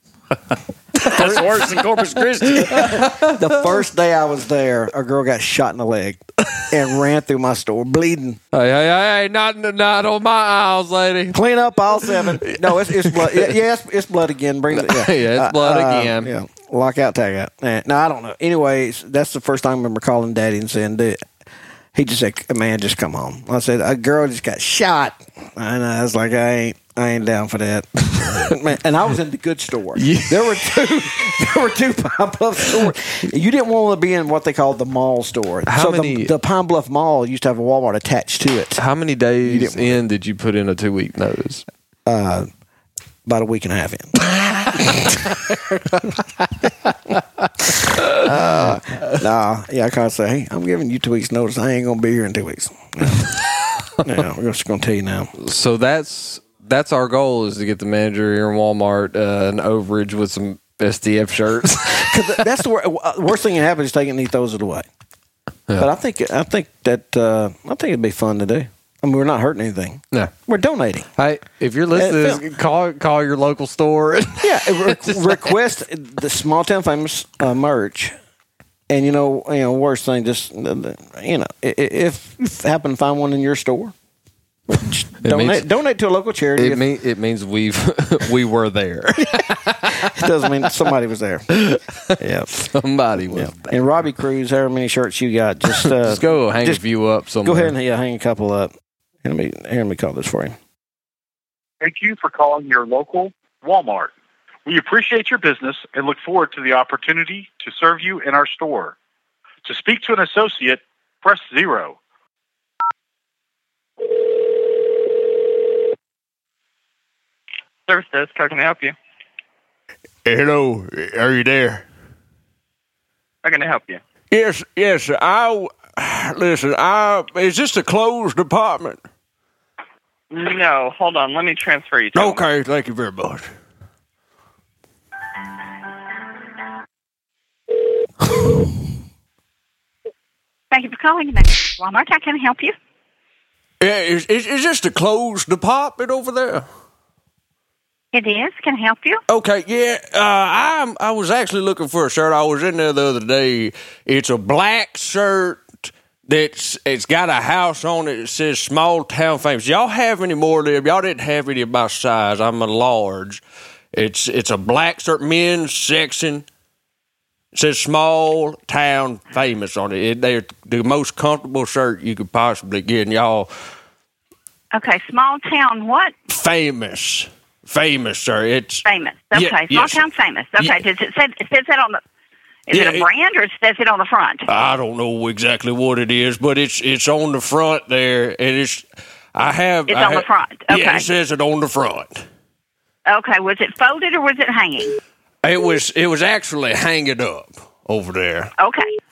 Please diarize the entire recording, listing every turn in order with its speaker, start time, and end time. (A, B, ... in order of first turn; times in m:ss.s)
0:01.0-0:02.9 A
0:01.0-0:01.4 B
0:02.7-0:08.4 B
0:02.8-0:03.6 C
0:08.5-0:11.4 C
0:11.3-0:21.2 B
0:11.9-0:13.6 C
0:14.7-0:16.3 C
0:21.9-0:38.8 B
0:28.2-0:28.5 C
0:30.0-0:30.8 C
0:35.7-0:36.3 C
0:38.8-0:41.6 C
0:39.4-0:40.0 B
0:42.0-0:42.5 B
0:43.2-0:44.2 B
0:44.7-0:45.3 B
0:47.9-0:53.3 B
0:54.0-0:55.3 B
0:55.4-1:02.4 C
1:02.0-1:04.8 B
1:05.8-1:11.1 B
1:11.2-1:15.5 C
1:11.9-1:12.4 B
1:14.4-1:18.1 B
1:18.9-1:23.9 B
1:24.7-1:26.8 B
1:25.2-1:25.6 C
1:26.6-1:30.7 C
1:30.0-1:31.5 B
1:31.5-1:33.8 C
1:32.2-1:32.7 B
1:33.2-1:36.8 B
1:35.8-1:37.7 C
1:37.4-1:38.7 B
1:39.2-1:40.5 B
1:41.8-1:44.1 D
1:44.6-1:48.9 D
1:49.6-1:52.0 D
1:57.9-1:58.9 E
2:00.2-2:01.8 F
2:03.4-2:04.0 E
2:04.3-2:09.0 F
2:10.3-2:12.4 E
2:12.1-2:13.5 F
2:20.7-2:22.7 G
2:23.8-2:26.6 F
2:28.1-2:29.2 G
2:29.3-2:43.4 F
2:43.9-2:46.4 F
2:47.5-2:53.5 F
2:54.7-2:56.1 G
2:56.3-3:00.0 F
2:58.8-3:02.0 G
3:02.7-3:04.4 G
3:02.7-3:03.1 F
3:04.5-3:12.2 F
3:09.9-3:11.1 G
3:13.1-3:15.0 G
3:15.4-3:18.5 F
3:18.6-3:18.9 G